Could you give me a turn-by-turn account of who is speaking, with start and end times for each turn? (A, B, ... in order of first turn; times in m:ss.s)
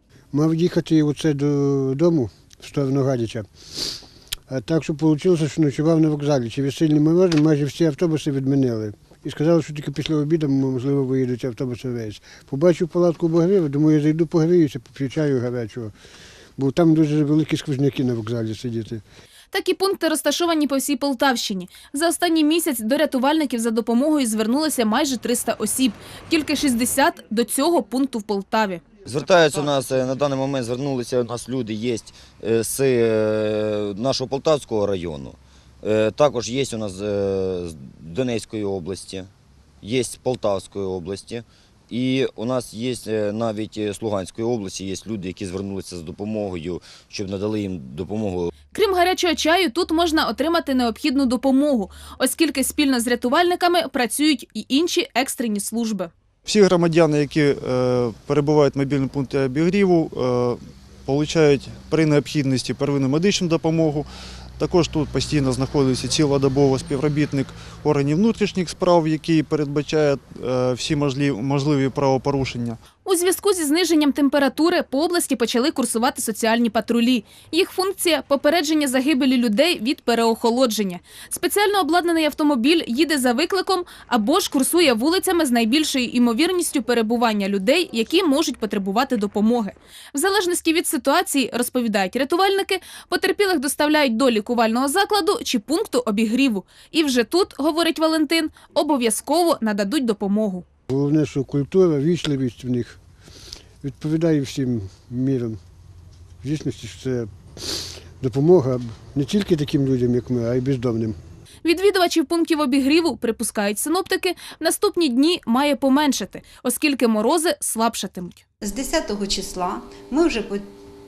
0:00.3-0:03.5 A
0:04.5-0:15.9 A
0:16.6-0:19.0 A
0:19.5-0:28.8 B
0:29.0-0:39.3 C
0:39.8-0:48.5 C
0:48.7-0:56.1 B
0:56.4-1:04.1 D
1:04.6-1:12.8 D
1:13.0-1:40.6 B
1:40.9-1:43.0 A
1:43.8-1:45.6 A
1:46.4-1:51.2 A
1:51.6-1:58.4 B
1:58.6-2:00.6 E